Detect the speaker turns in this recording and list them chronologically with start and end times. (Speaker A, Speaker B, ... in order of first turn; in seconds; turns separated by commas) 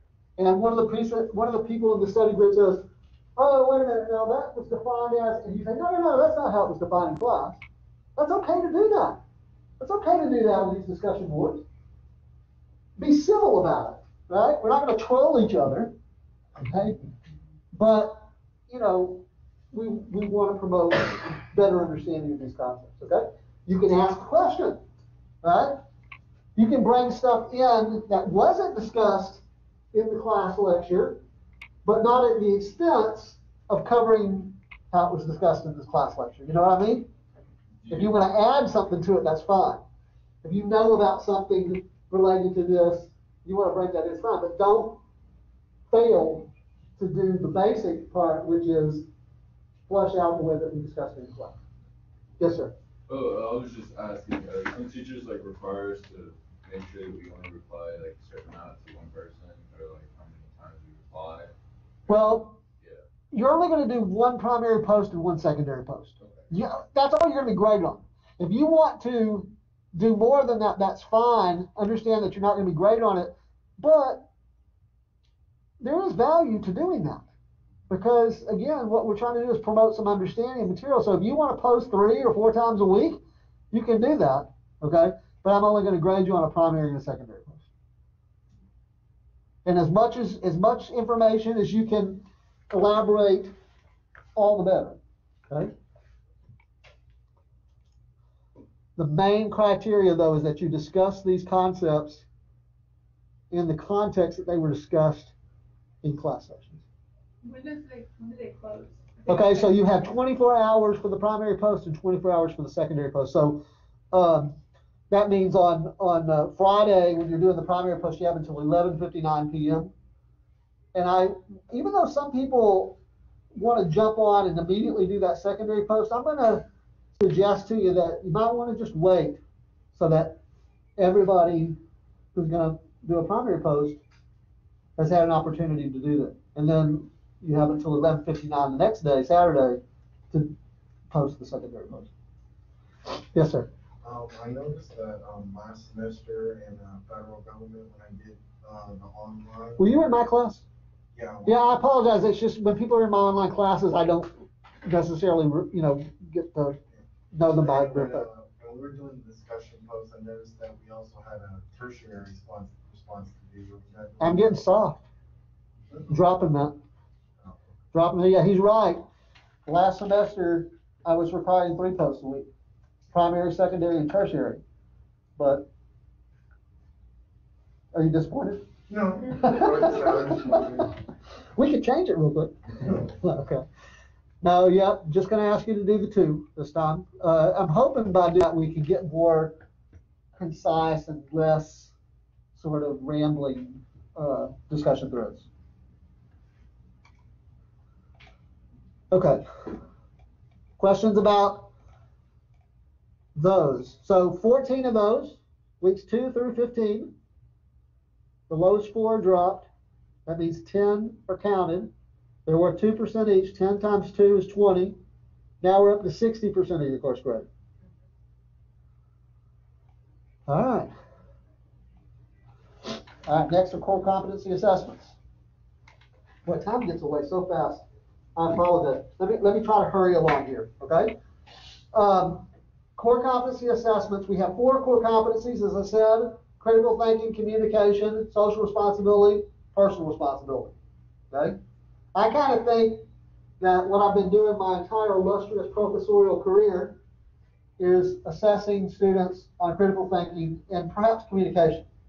Speaker A: 0.4-7.6, Speaker A: 8.2-9.2, Speaker A: 9.8-11.6, Speaker A: 13.0-15.9, Speaker A: 16.6-17.0, Speaker A: 17.7-24.8, Speaker A: 25.4-25.8, Speaker A: 26.6-29.4, Speaker A: 29.9-31.2, Speaker A: 31.8-37.1, Speaker A: 37.9-39.8, Speaker A: 40.4-45.0, Speaker A: 45.9-49.1, Speaker A: 49.9-51.6, Speaker A: 52.4-52.7, Speaker B: 53.1-61.5, Speaker A: 62.1-62.6, Speaker B: 62.1-63.0, Speaker A: 63.3-74.2, Speaker A: 75.8-77.2, Speaker A: 77.9-83.2, Speaker A: 83.7-87.6, Speaker A: 89.6-93.5, Speaker A: 94.3-95.0, Speaker A: 99.0-102.2, Speaker A: 103.5-105.3, Speaker A: 106.0-106.8, Speaker C: 107.4-109.6, Speaker A: 109.3-114.6, Speaker A: 115.1-119.9, Speaker A: 120.9-123.0, Speaker A: 123.5-126.6, Speaker A: 127.2-129.4, Speaker A: 129.9-130.4, Speaker A: 131.0-131.8, Speaker A: 132.3-134.0, Speaker A: 135.0-139.8, Speaker A: 141.1-142.1, Speaker A: 143.3-143.7, Speaker D: 144.0-149.8, Speaker A: 149.8-150.6, Speaker D: 151.1-151.6, Speaker A: 151.4-156.8, Speaker D: 156.9-164.6, Speaker A: 157.3-158.2, Speaker A: 164.2-165.0, Speaker A: 166.1-166.8, Speaker A: 167.9-169.0, Speaker A: 169.7-172.5, Speaker A: 173.1-174.6, Speaker A: 175.4-175.7, Speaker A: 177.9-178.7, Speaker D: 178.9-180.9, Speaker A: 179.3-180.8, Speaker A: 181.6-183.6, Speaker A: 184.4-189.6, Speaker A: 190.4-191.9, Speaker A: 192.6-195.5, Speaker A: 199.1-199.7, Speaker A: 200.8-201.7, Speaker A: 203.3-207.1, Speaker A: 208.5-209.7, Speaker A: 210.2-211.9, Speaker A: 212.4-215.0, Speaker A: 215.6-217.5, Speaker A: 220.5-220.9, Speaker A: 223.2-225.1, Speaker A: 226.4-227.8, Speaker A: 228.3-231.1, Speaker A: 231.9-240.7, Speaker A: 241.3-241.6, Speaker A: 242.1-243.0, Speaker A: 243.6-247.0, Speaker A: 247.8-251.8